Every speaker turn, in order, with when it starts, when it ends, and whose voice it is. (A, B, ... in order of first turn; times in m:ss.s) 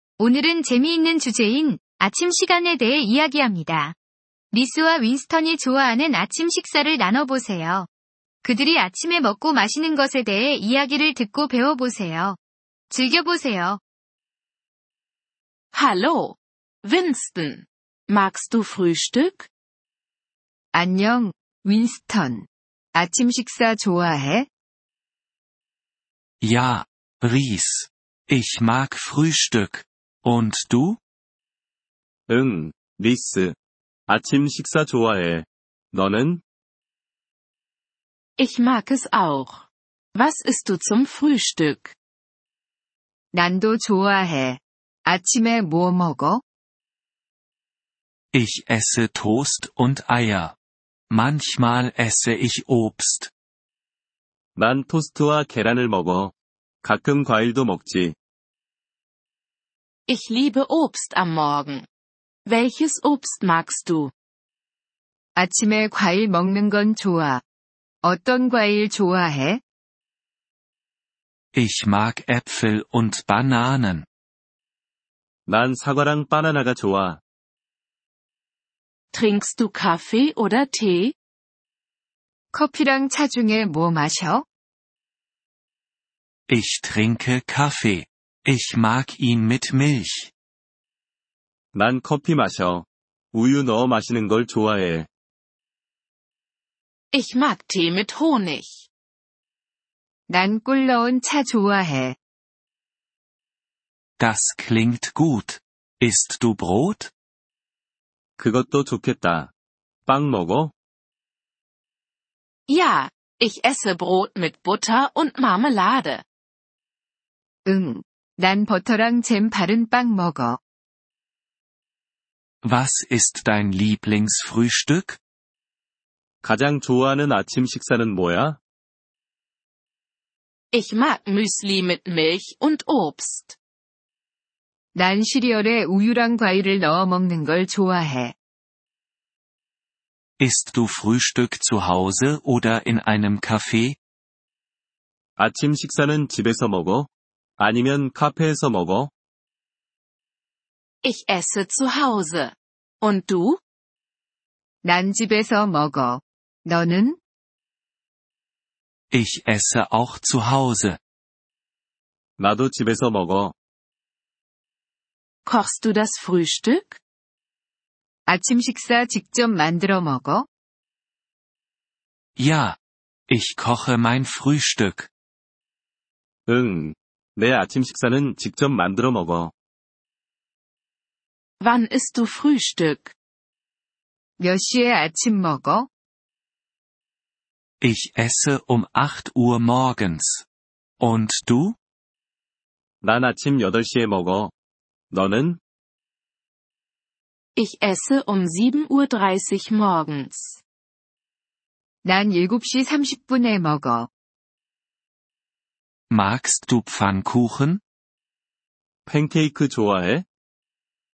0:00.2-0:04.0 A
0:04.5-0:07.9 A
0:08.4-0:12.4 A
0:12.9-0:13.8 A
0:15.7-0:19.5 B
0:20.7-0:24.5 A
0:26.4-0:31.0 C
0:32.3-0:33.6 D
0:34.1-0:36.4 D
0:38.4-0:42.0 B
0:43.3-0:46.4 A
0:48.3-0:50.5 C
0:51.1-0:53.3 C
0:54.6-0:58.2 D
1:00.1-1:01.9 B
1:02.4-1:04.1 B
1:05.4-1:07.4 A
1:08.0-1:09.6 A
1:11.5-1:14.0 C
1:15.5-1:17.2 D
1:19.1-1:21.1 B
1:22.5-1:24.4 A
1:26.5-1:30.3 C
1:31.7-1:35.1 D
1:37.1-1:38.9 B
1:40.3-1:42.2 A
1:44.2-1:47.1 C
1:48.4-1:49.5 D
1:50.1-1:50.7 D
1:52.7-1:56.2 B
1:57.6-2:00.6 A
2:02.6-2:05.2 C
2:06.4-2:08.6 D
2:10.7-2:13.6 B
2:14.9-2:18.3 A
2:20.4-2:24.0 C
2:25.4-2:29.1 D
2:31.0-2:33.6 B
2:34.8-2:37.2 A
2:39.1-2:41.0 C
2:42.4-2:43.5 D
2:45.4-2:47.0 B
2:48.3-2:50.5 A
2:52.4-2:52.8 C
2:53.3-2:55.1 C
2:56.5-2:59.5 D
3:01.6-3:03.1 B
3:04.4-3:05.9 A
3:07.8-3:10.4 C
3:11.0-3:11.8 C
3:13.0-3:14.5 D
3:15.1-3:15.6 D
3:17.5-3:20.6 B
3:22.0-3:24.1 A
3:26.1-3:27.8 C
3:29.1-3:30.2 D